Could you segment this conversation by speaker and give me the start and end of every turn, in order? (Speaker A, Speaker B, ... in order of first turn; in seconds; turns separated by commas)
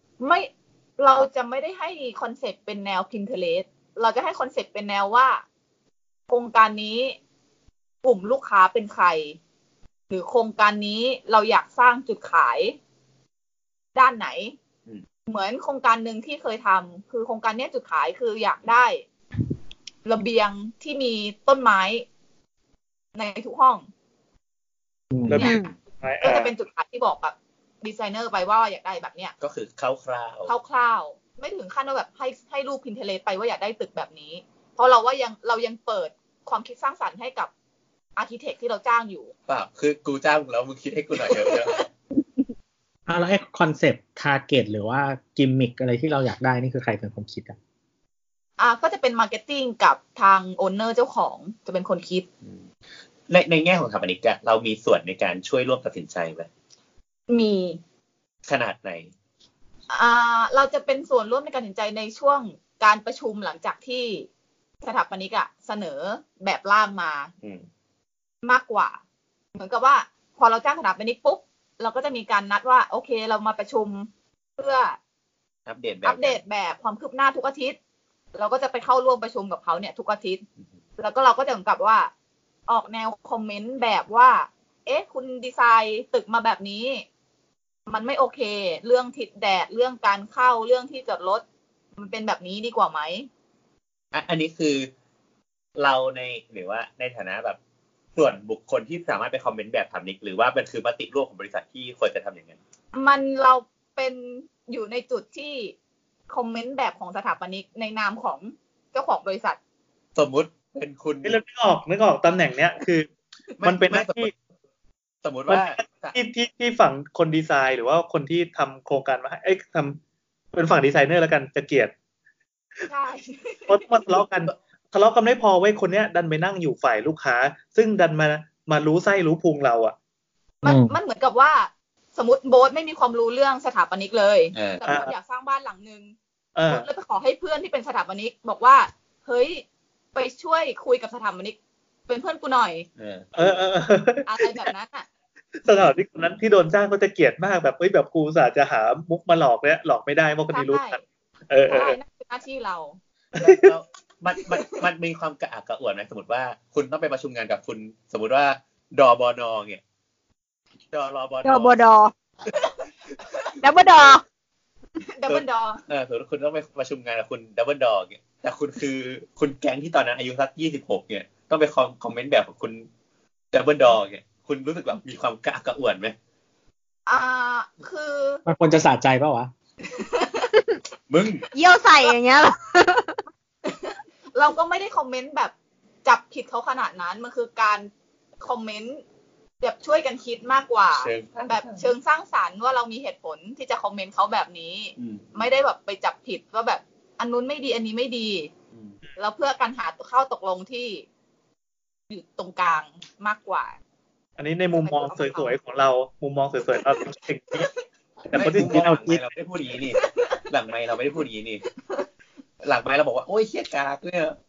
Speaker A: 0.2-5.4, Speaker A: 6.3-7.2, Speaker A: 8.0-9.4, Speaker A: 10.1-12.8, Speaker A: 13.9-14.6, Speaker A: 15.3-19.1, Speaker A: 20.1-22.1, Speaker A: 23.1-23.9, Speaker B: 25.1-25.4, Speaker C: 25.3-26.5, Speaker D: 25.4-25.7, Speaker A: 26.2-29.3, Speaker E: 29.4-30.5, Speaker A: 30.5-37.5, Speaker A: 38.2-39.3, Speaker E: 39.5-41.8, Speaker A: 41.2-41.9, Speaker B: 43.1-47.6, Speaker A: 48.6-52.3, Speaker E: 53.3-56.5, Speaker A: 57.3-57.8, Speaker E: 58.5-59.1, Speaker A: 59.9-64.3, Speaker A: 64.8-67.3, Speaker E: 67.4-67.7, Speaker A: 68.4-69.0, Speaker A: 69.6-75.0, Speaker E: 75.7-76.4, Speaker A: 76.0-77.8, Speaker A: 78.3-80.4, Speaker A: 81.0-82.1, Speaker A: 82.7-87.0, Speaker A: 87.9-91.4, Speaker A: 92.0-93.3, Speaker E: 94.1-94.9, Speaker E: 95.8-97.6, Speaker E: 98.2-102.6, Speaker A: 102.9-105.8, Speaker A: 106.3-109.6, Speaker E: 110.2-111.4, Speaker C: 111.2-113.1, Speaker E: 113.6-114.3, Speaker C: 113.6-114.3, Speaker E: 115.2-116.2, Speaker C: 115.5-120.0, Speaker C: 120.5-121.9, Speaker A: 122.9-123.8, Speaker C: 123.7-129.9, Speaker A: 130.6-136.2, Speaker B: 130.6-130.9, Speaker E: 134.5-134.8, Speaker C: 134.8-135.1, Speaker C: 136.6-136.9, Speaker A: 136.7-141.6, Speaker A: 142.1-142.9, Speaker E: 143.0-143.6, Speaker C: 143.4-144.6, Speaker A: 144.3-145.1, Speaker C: 145.7-151.0, Speaker A: 150.5-151.0, Speaker C: 151.5-152.0, Speaker A: 151.7-153.0, Speaker C: 153.4-153.7, Speaker E: 153.4-159.8, Speaker E: 160.9-161.8, Speaker D: 161.4-162.1, Speaker D: 163.6-164.2, Speaker A: 165.0-165.8, Speaker E: 165.3-172.9, Speaker E: 173.5-176.2, Speaker A: 177.1-178.4, Speaker B: 178.5-179.5, Speaker A: 179.9-180.5, Speaker E: 181.1-181.5, Speaker D: 181.5-183.2, Speaker A: 183.6-185.5, Speaker A: 186.1-187.9, Speaker A: 188.4-189.0, Speaker A: 189.6-198.5, Speaker E: 190.9-191.9, Speaker E: 195.0-195.3, Speaker A: 199.2-201.1, Speaker A: 202.1-203.7, Speaker C: 204.4-207.7, Speaker A: 204.7-205.6, Speaker C: 208.3-209.0, Speaker E: 208.3-211.6, Speaker B: 208.6-209.2, Speaker A: 209.9-210.4, Speaker E: 212.6-214.4